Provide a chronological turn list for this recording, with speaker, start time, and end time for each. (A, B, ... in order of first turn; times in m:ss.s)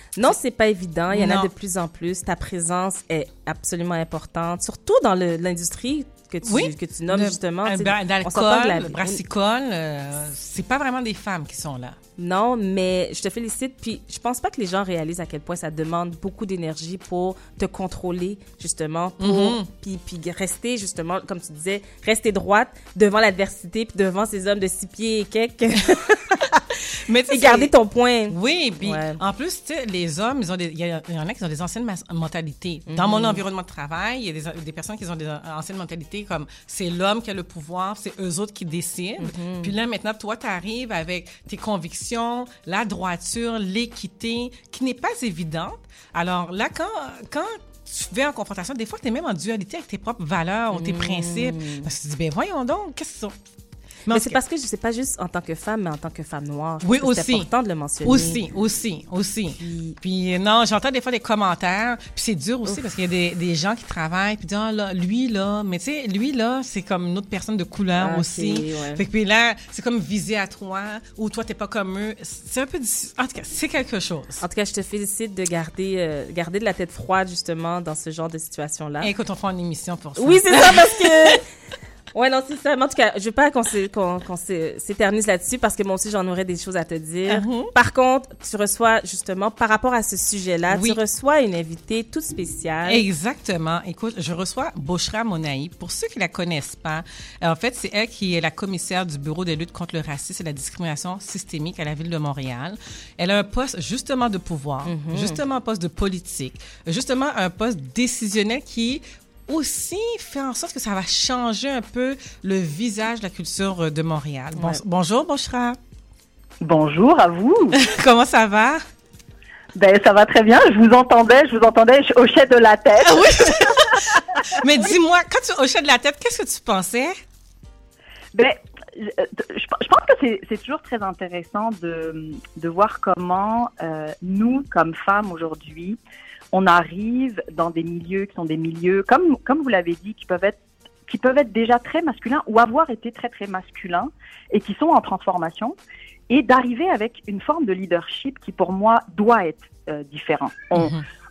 0:00.2-0:09.2 A
0:01.1-0:01.5 B
0:06.4-0:12.0 B
0:12.2-0:26.6 A
0:19.2-0:19.7 B
0:27.0-0:27.7 B
0:27.3-0:29.2 A
0:28.3-0:53.3 B
0:32.9-0:33.4 A
0:39.2-0:39.7 A
0:50.7-0:51.9 A
0:54.1-0:54.4 B
0:54.1-0:58.4 A
0:56.8-0:57.5 B
0:58.0-1:14.4 B
0:59.6-1:00.0 A
1:08.0-1:09.0 A
1:14.4-1:19.1 A
1:19.0-1:21.3 B
1:20.2-1:21.4 A
1:22.1-1:33.0 A
1:27.3-1:27.7 B
1:30.7-1:31.0 B
1:32.8-1:55.8 B
1:44.8-1:45.4 A
1:54.5-1:54.8 A
1:56.6-1:57.8 C
1:57.7-1:58.8 B
1:59.7-2:03.8 C
2:03.0-2:07.1 B
2:08.3-2:16.0 C
2:16.5-2:25.8 C
2:26.3-2:31.0 C
2:30.7-2:31.0 B